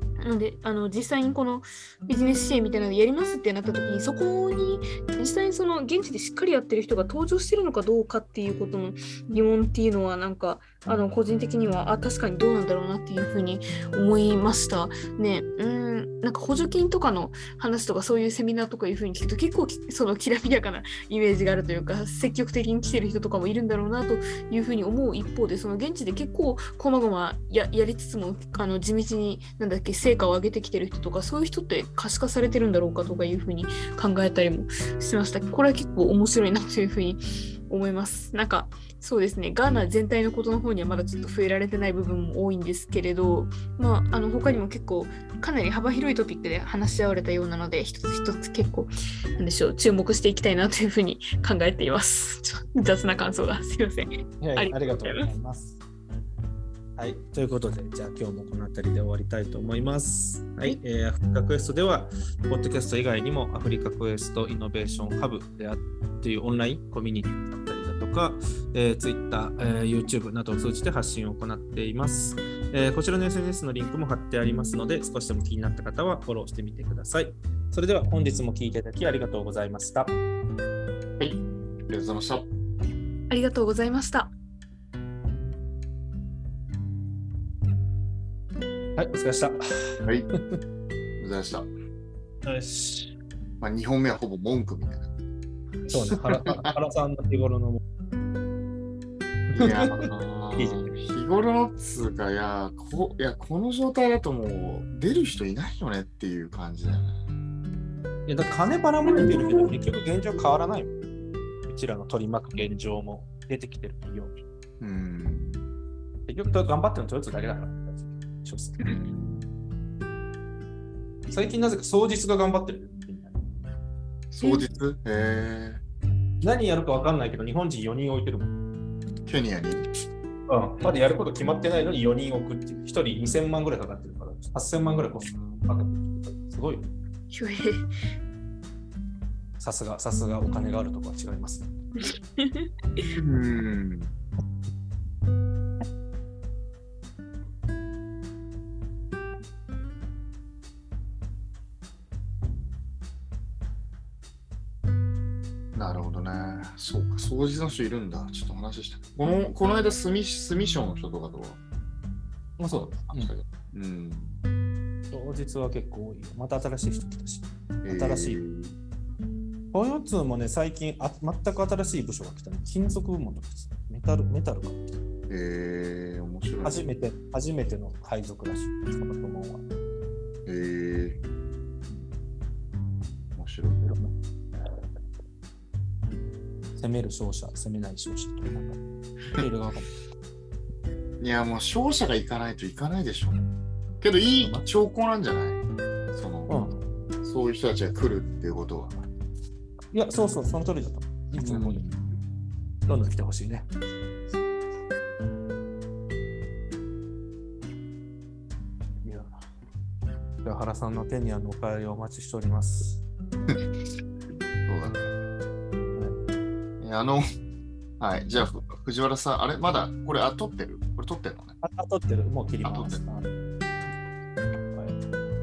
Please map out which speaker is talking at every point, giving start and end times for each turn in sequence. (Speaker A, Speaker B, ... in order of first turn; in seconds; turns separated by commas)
Speaker A: 0.2-55.3, Speaker B: 54.4-55.8, Speaker B: 57.0-80.2, Speaker C: 81.2-82.5, Speaker A: 83.3-84.3, Speaker B: 89.0-90.0, Speaker C: 91.2-91.7, Speaker B: 92.4-93.1, Speaker C: 93.6-95.1, Speaker B: 95.9-97.8, Speaker C: 95.9-96.7, Speaker B: 99.5-100.9, Speaker C: 99.5-107.2, Speaker B: 108.3-110.9, Speaker B: 111.7-114.3, Speaker C: 114.8-115.6, Speaker B: 116.3-118.9, Speaker C: 118.8-119.5, Speaker B: 121.3-123.4, Speaker C: 124.3-125.8, Speaker B: 126.4-128.5, Speaker C: 129.3-129.9, Speaker B: 130.5-136.9, Speaker C: 135.2-135.7, Speaker A: 137.3-137.9, Speaker B: 139.6-141.7, Speaker A: 142.0-143.1, Speaker C: 143.1-144.1, Speaker C: 155.7-161.6, Speaker B: 162.6-163.3, Speaker C: 162.9-164.4, Speaker B: 165.1-168.4, Speaker C: 167.8-168.8, Speaker B: 169.7-174.8, Speaker C: 175.3-176.9, Speaker B: 176.6-179.7, Speaker C: 180.4-181.2, Speaker C: 183.4-183.8, Speaker B: 183.8-184.1, Speaker B: 186.7-188.8, Speaker B: 189.4-189.9, Speaker C: 191.2-193.5, Speaker C: 194.0-195.6, Speaker B: 194.4-194.7, Speaker C: 196.1-196.6, Speaker B: 196.5-196.8, Speaker C: 197.2-199.1, Speaker B: 199.9-201.9, Speaker C: 201.4-202.1, Speaker B: 202.9-203.7, Speaker B: 209.0-209.4, Speaker B: 210.4-213.0, Speaker C: 214.6-215.1, Speaker C: 216.8-217.2, Speaker C: 218.0-221.6, Speaker B: 221.6-223.3, Speaker C: 222.6-223.0, Speaker B: 224.6-225.1